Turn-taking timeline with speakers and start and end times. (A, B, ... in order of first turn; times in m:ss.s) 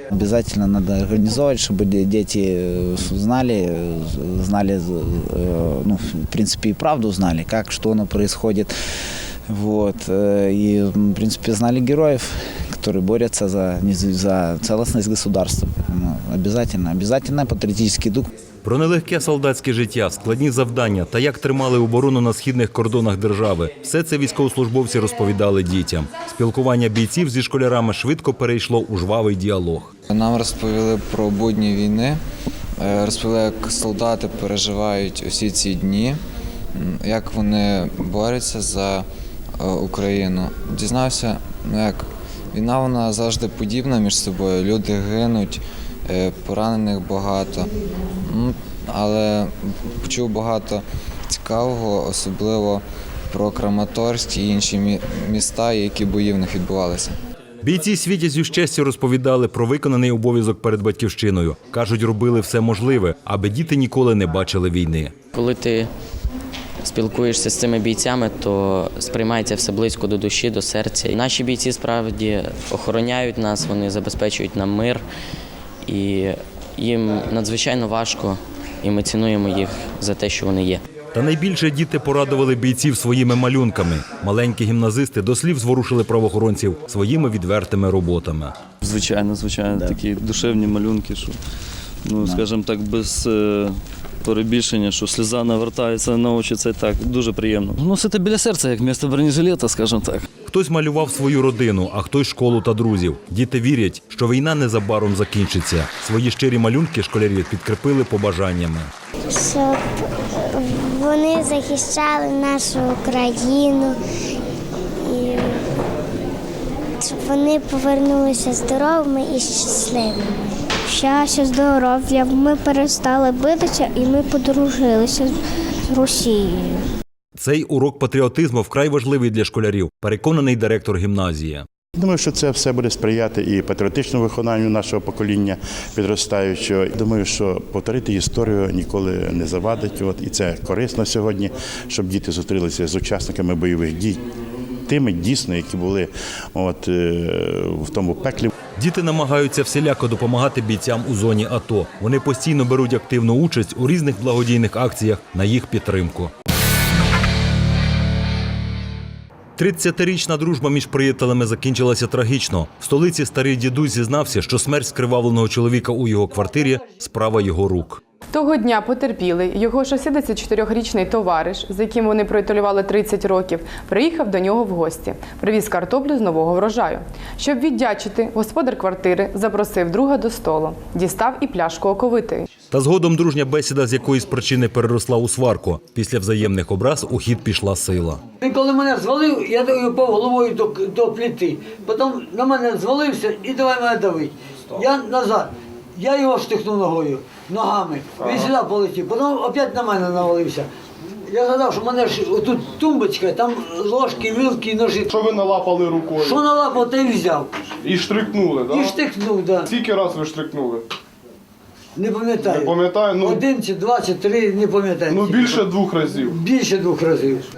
0:00.1-0:08.7 A
0:09.5-0:18.3 A
0:18.6-0:29.9 B
0:30.1-0:32.2 C
0:32.8-0:36.2 C
0:36.8-0:39.0 C
0:39.6-0:47.7 C
0:48.2-0:57.1 C
0:57.6-1:05.2 B
1:05.3-1:05.9 D
1:06.8-1:15.0 D
1:15.8-1:20.8 D
1:21.1-1:28.6 B
1:28.8-1:31.3 E
1:32.1-1:33.7 E
1:34.2-1:40.2 E
1:40.4-1:48.9 B
1:49.3-1:49.8 F
1:50.5-1:54.0 F
1:55.0-1:55.6 F
1:57.0-2:00.3 F
2:00.9-2:05.3 F
2:05.9-2:06.8 F
2:07.4-2:11.6 B
2:12.0-2:24.2 G
2:24.9-2:28.5 G
2:28.7-2:36.3 B
2:39.6-2:48.0 B
2:48.3-3:02.5 H
3:02.7-3:08.2 B
3:08.4-3:20.7 I
3:18.2-3:18.5 J
3:21.3-3:25.1 I
3:25.1-3:26.5 J
3:26.1-3:27.5 I
3:27.8-3:29.0 J
3:28.6-3:29.7 I
3:29.6-3:30.8 J
3:32.0-3:37.5 I
3:32.4-3:33.4 J
3:35.1-3:36.4 J